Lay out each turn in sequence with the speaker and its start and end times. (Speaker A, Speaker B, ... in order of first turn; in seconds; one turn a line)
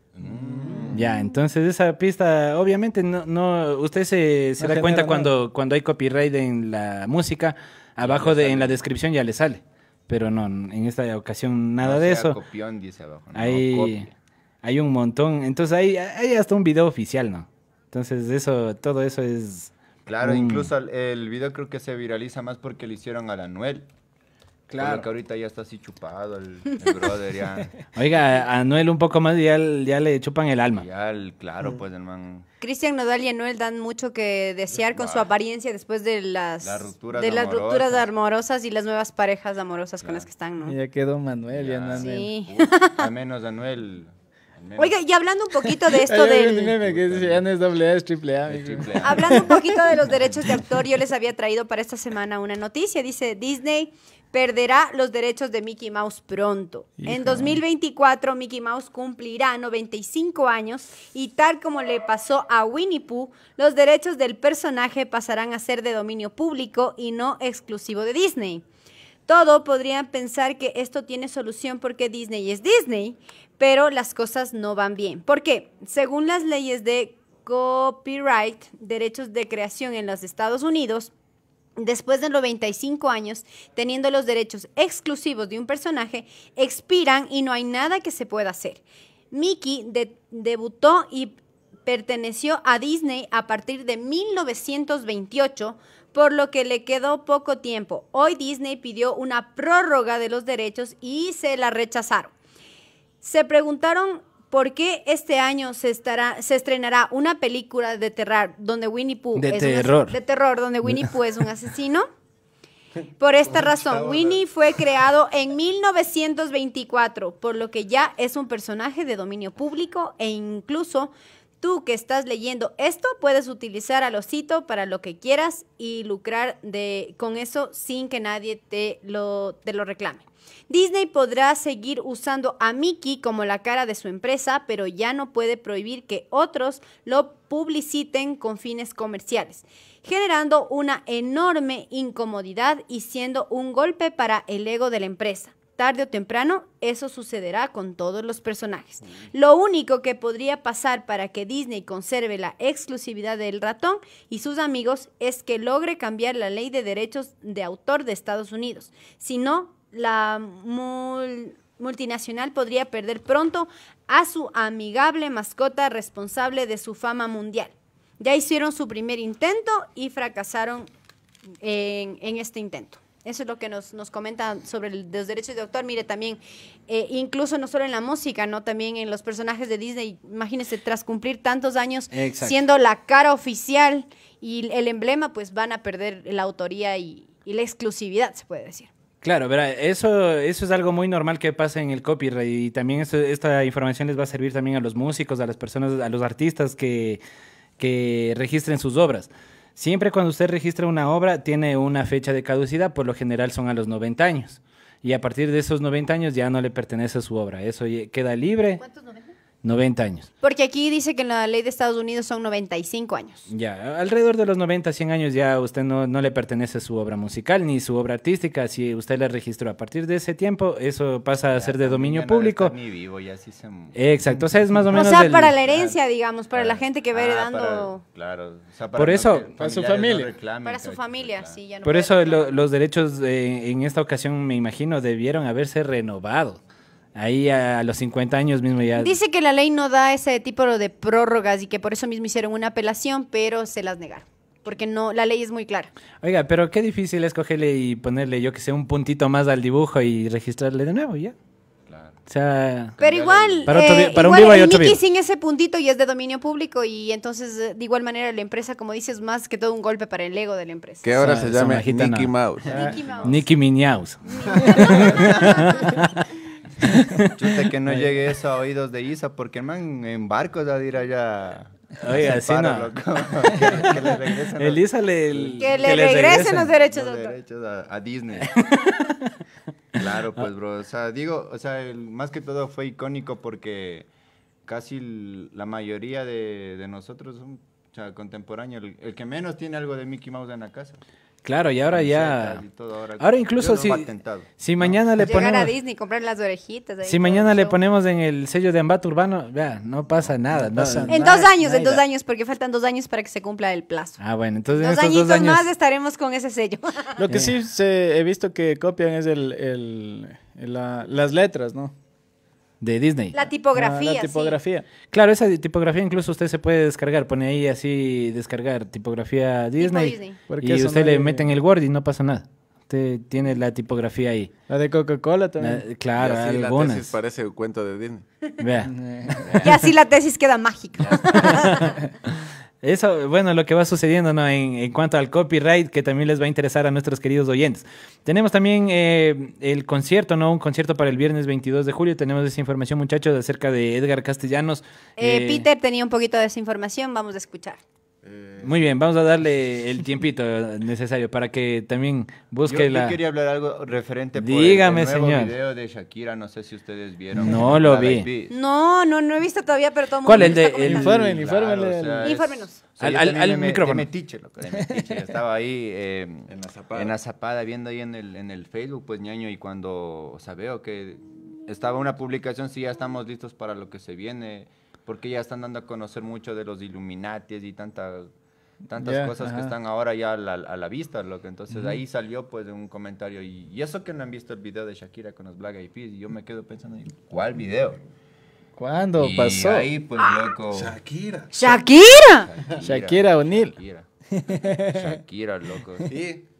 Speaker A: 0.2-1.1
Speaker B: 0.9-12.4
Speaker C: 4.6-5.3
Speaker A: 8.0-8.8
Speaker A: 11.8-14.1
Speaker B: 13.3-14.1
Speaker B: 14.6-20.7
Speaker A: 20.1-23.9
Speaker B: 24.7-25.1
Speaker A: 24.7-27.7
Speaker B: 27.9-30.9
Speaker A: 30.7-32.4
Speaker D: 32.6-40.8
Speaker A: 34.7-35.3
Speaker A: 36.6-38.0
Speaker C: 40.6-42.3
Speaker A: 41.5-44.9
Speaker D: 41.9-43.1
Speaker D: 44.8-46.7
Speaker C: 46.0-49.1
Speaker A: 46.8-47.4
Speaker A: 48.5-49.6
Speaker D: 49.0-68.6
Speaker C: 57.0-57.5
Speaker D: 69.3-81.1
Speaker D: 81.8-102.3
Speaker D: 103.2-112.1
Speaker B: 109.3-110.2
Speaker B: 110.8-111.1
Speaker D: 113.2-170.9
Speaker A: 113.4-114.4
Speaker D: 171.6-188.9
Speaker B: 182.1-182.6
Speaker B: 189.2-197.2
Speaker B: 197.8-208.8
Speaker D: 208.8-209.3
Speaker B: 209.6-210.3
Speaker D: 210.4-213.5
Speaker B: 213.5-222.7
Speaker A: 221.5-226.0
Speaker B: 223.9-225.5
Speaker D: 224.9-228.0
Speaker A: 226.5-231.6
Speaker B: 228.9-229.5
Speaker C: 229.6-230.3
Speaker D: 230.6-232.6
Speaker B: 231.8-236.6
Speaker B: 237.2-239.1
Speaker D: 239.0-245.9
Speaker B: 246.2-251.3
Speaker A: 251.9-252.1
Speaker B: 252.3-252.9
Speaker A: 253.0-253.7
Speaker D: 253.0-261.1
Speaker B: 253.7-255.0
Speaker E: 261.0-262.7
Speaker B: 261.1-262.3
Speaker A: 262.6-263.4
Speaker D: 262.7-263.5
Speaker B: 263.2-266.2
Speaker D: 264.2-265.9
Speaker A: 264.5-265.8
Speaker B: 266.8-267.3
Speaker A: 267.2-278.6
Speaker B: 272.0-272.9
Speaker B: 274.6-276.7
Speaker D: 275.6-277.4
Speaker B: 278.5-278.9
Speaker A: 279.9-284.1
Speaker A: 284.6-291.0
Speaker B: 291.4-292.6
Speaker A: 291.9-295.2
Speaker B: 293.2-295.7
Speaker D: 295.2-297.7
Speaker B: 297.0-302.0
Speaker C: 300.5-301.4
Speaker D: 301.1-304.2
Speaker B: 304.2-305.6
Speaker D: 304.7-307.2
Speaker C: 307.2-311.9
Speaker B: 312.8-313.4
Speaker D: 313.3-314.6
Speaker C: 313.7-314.9
Speaker B: 315.1-324.5
Speaker D: 319.8-320.4
Speaker C: 320.5-321.5
Speaker C: 324.7-325.8
Speaker B: 325.6-327.1
Speaker E: 326.2-328.2
Speaker B: 328.6-329.7
Speaker C: 328.9-329.5
Speaker D: 329.5-332.0
Speaker B: 331.4-331.9
Speaker B: 332.8-345.6
Speaker D: 345.2-347.8
Speaker E: 348.2-348.6
Speaker B: 348.6-353.2
Speaker A: 352.7-358.5
Speaker B: 354.4-355.5
Speaker B: 357.4-358.3
Speaker C: 357.4-357.7
Speaker D: 358.5-361.2
Speaker B: 360.2-361.1
Speaker C: 360.8-362.4
Speaker A: 360.9-378.3
Speaker D: 362.2-362.8
Speaker B: 363.0-364.1
Speaker C: 364.7-365.1
Speaker E: 366.5-367.1
Speaker A: 378.9-388.0
Speaker C: 379.0-379.7
Speaker C: 388.8-389.9
Speaker A: 389.2-391.0
Speaker E: 390.7-391.8
Speaker D: 391.5-392.5
Speaker A: 392.4-396.1
Speaker C: 392.8-393.7
Speaker C: 394.4-395.1
Speaker E: 396.1-396.4